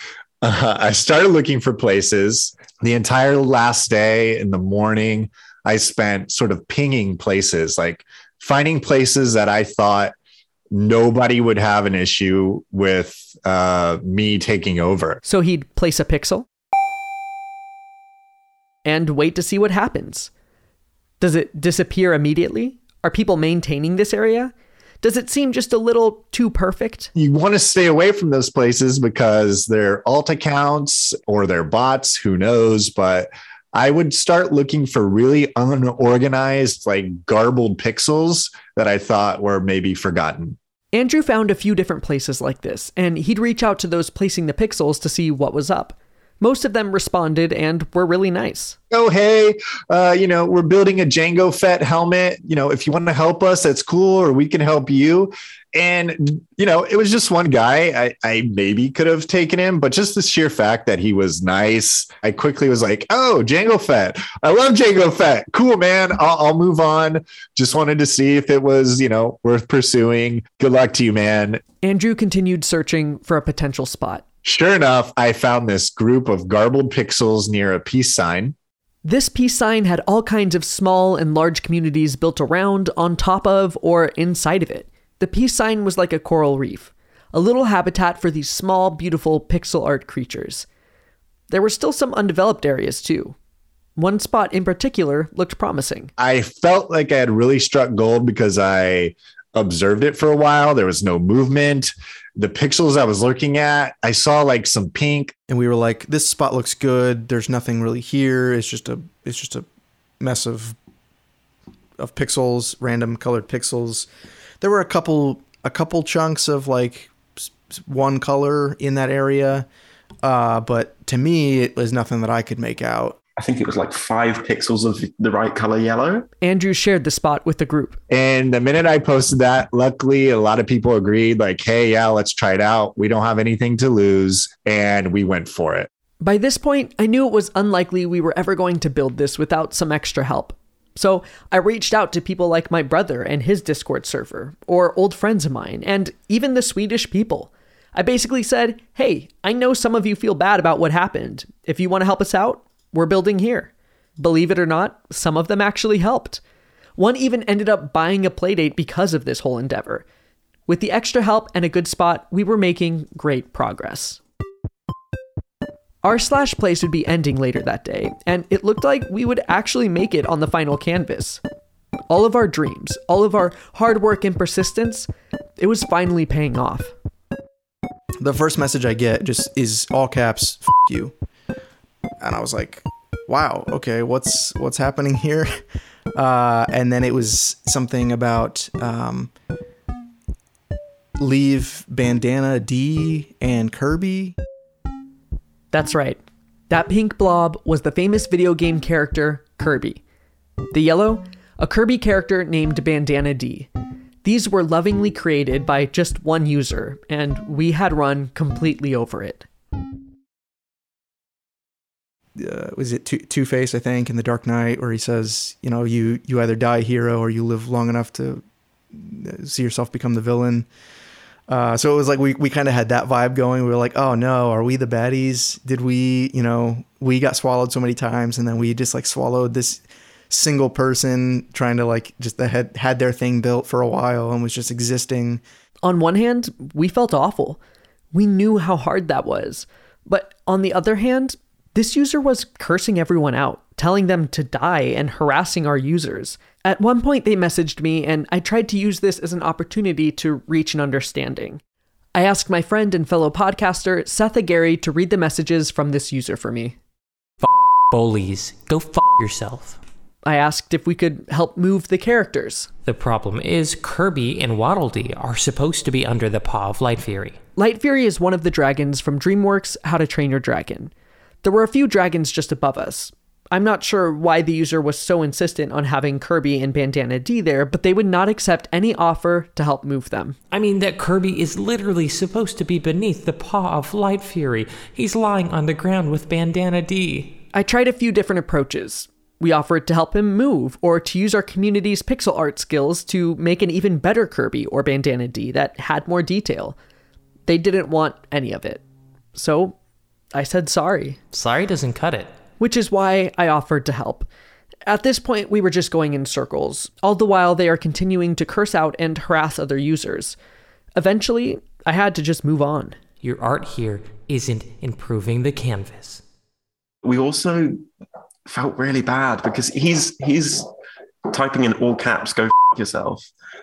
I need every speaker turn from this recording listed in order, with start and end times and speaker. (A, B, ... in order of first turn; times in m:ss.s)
0:00.4-0:10.1 A
0:10.7-0:15.2 A
0:15.2-0:16.5 B
0:18.8-0:20.3 B
0:21.2-0:27.1 B
0:27.2-0:40.6 A
0:40.9-0:48.8 B
0:48.9-1:11.6 A
1:11.8-1:14.2 B
1:14.4-1:18.5 A
1:19.0-1:30.6 B
1:31.5-1:33.4 B
1:34.0-1:36.1 B
1:36.2-1:45.3 A
1:45.5-1:49.6 C
1:50.2-1:50.8 C
1:52.0-1:54.1 C
1:54.6-1:59.7 C
2:00.2-2:03.2 C
2:03.4-2:06.3 D
2:06.4-2:08.0 B
2:08.1-2:15.9 A
2:16.2-2:36.4 B
2:37.0-2:40.0 B
2:40.7-2:44.2 B
2:46.0-2:51.4 B
2:52.1-2:56.9 B
2:58.2-3:01.1 C
3:02.2-3:05.5 C
3:06.1-3:09.3 C
3:11.2-3:14.4 C
3:15.7-3:20.0 B
3:20.7-3:23.7 B
3:24.2-3:29.4 B
3:32.4-3:38.4 C
3:38.9-3:40.7 C
3:41.5-3:55.4 C
3:55.8-3:57.6 B
3:58.1-4:11.6 B
4:12.1-4:16.8 B
4:17.4-4:19.8 E
4:20.2-4:22.7 B
4:22.8-4:27.4 E
4:27.6-4:30.9 B
4:31.4-4:40.4 B
4:40.5-4:47.4 E
4:47.5-4:56.8 B
4:57.5-4:58.8 B
4:59.3-4:59.8 B
5:00.3-5:01.2 B
5:01.3-5:02.3 E
5:02.6-5:04.3 B
5:04.9-5:10.4 B
5:11.0-5:13.0 B
5:13.2-5:16.2 E
5:17.0-5:17.8 D
5:18.5-5:20.7 D
5:21.3-5:23.3 D